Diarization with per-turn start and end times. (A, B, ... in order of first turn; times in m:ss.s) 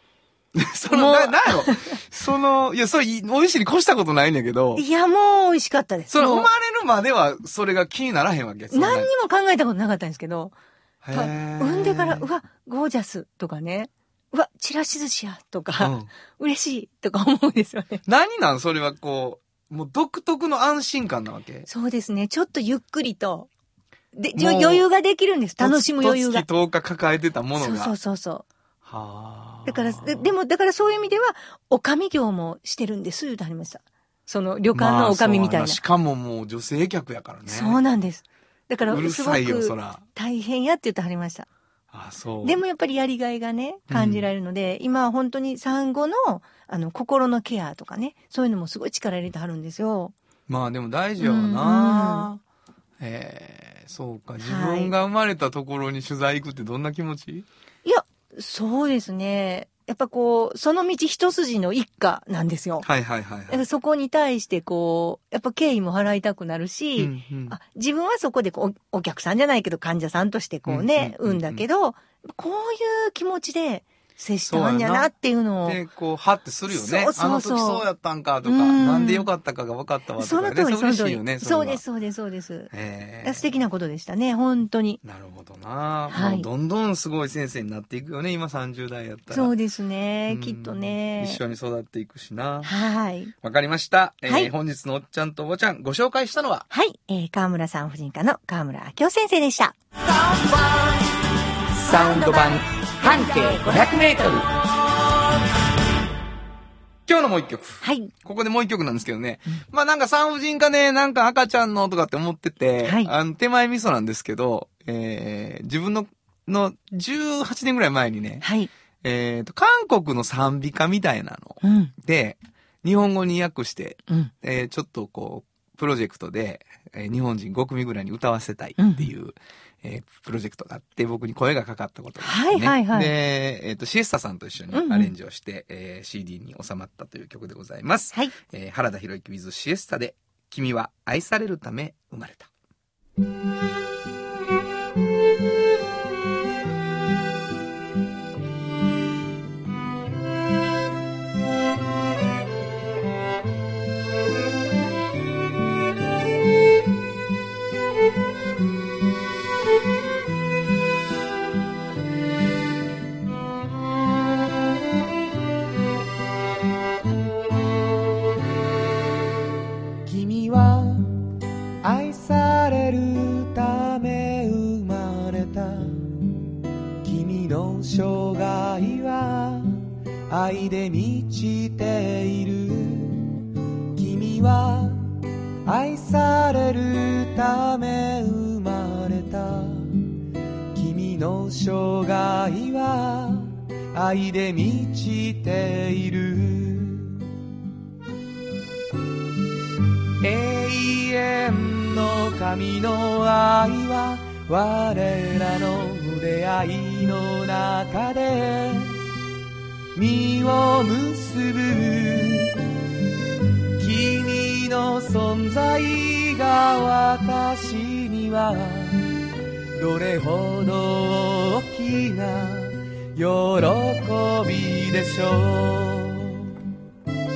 0:00.5-0:04.8 A
0:00.9-0:02.0 B
0:04.8-0:06.5 B
0:06.1-0:09.1 A
0:08.7-0:10.5 B
0:11.0-0:12.2 A
0:11.1-0:18.0 B
0:15.8-0:16.1 A
0:18.0-0:21.7 A
0:21.7-0:23.5 B
0:24.1-0:26.4 B
0:24.3-0:24.8 A
0:25.6-0:27.9 A
0:27.6-0:28.4 B
0:28.8-0:30.3 A
0:29.6-0:35.8 B
0:34.7-0:37.8 A
0:37.4-0:41.5 B
0:38.8-0:40.0 A
0:41.9-0:42.6 A
0:42.4-0:50.1 B
0:43.9-0:44.3 A
0:50.5-0:52.4 A
0:51.2-0:52.3 B
0:53.0-0:57.5 A
0:54.4-0:54.9 B
0:57.8-1:02.8 B
1:02.8-1:03.6 A
1:03.5-1:15.8 B
1:07.0-1:07.6 A
1:10.6-1:11.6 A
1:14.4-1:15.1 A
1:15.6-1:21.8 A
1:16.7-1:17.8 B
1:18.4-1:19.3 B
1:20.2-1:22.7 B
1:22.7-1:23.4 A
1:23.2-1:25.0 B
1:25.0-1:29.5 A
1:26.1-1:26.5 B
1:29.3-1:31.4 B
1:30.3-1:32.7 A
1:32.6-1:33.3 B
1:33.4-1:36.7 A
1:36.7-1:39.8 B
1:40.0-1:41.1 C
1:41.8-1:44.4 A
1:41.9-1:42.5 B
1:41.9-1:42.3 C
1:43.1-1:43.9 B
1:43.3-1:43.9 C
1:44.7-1:44.9 C
1:47.1-1:58.4 A
1:47.8-1:48.1 B
1:52.8-1:53.1 B
1:58.4-1:58.7 B
1:59.0-2:22.5 A
2:01.6-2:01.9 B
2:08.8-2:09.1 B
2:12.2-2:13.1 B
2:14.7-2:15.1 B
2:50.0-2:51.1 C
2:51.8-2:56.0 C
2:57.0-3:03.3 C
3:03.9-3:05.1 C
3:05.6-3:10.0 C
3:10.7-3:17.2 C
3:20.2-3:29.0 C
3:29.9-3:32.6 C
3:33.8-3:39.1 C
3:39.7-3:46.4 C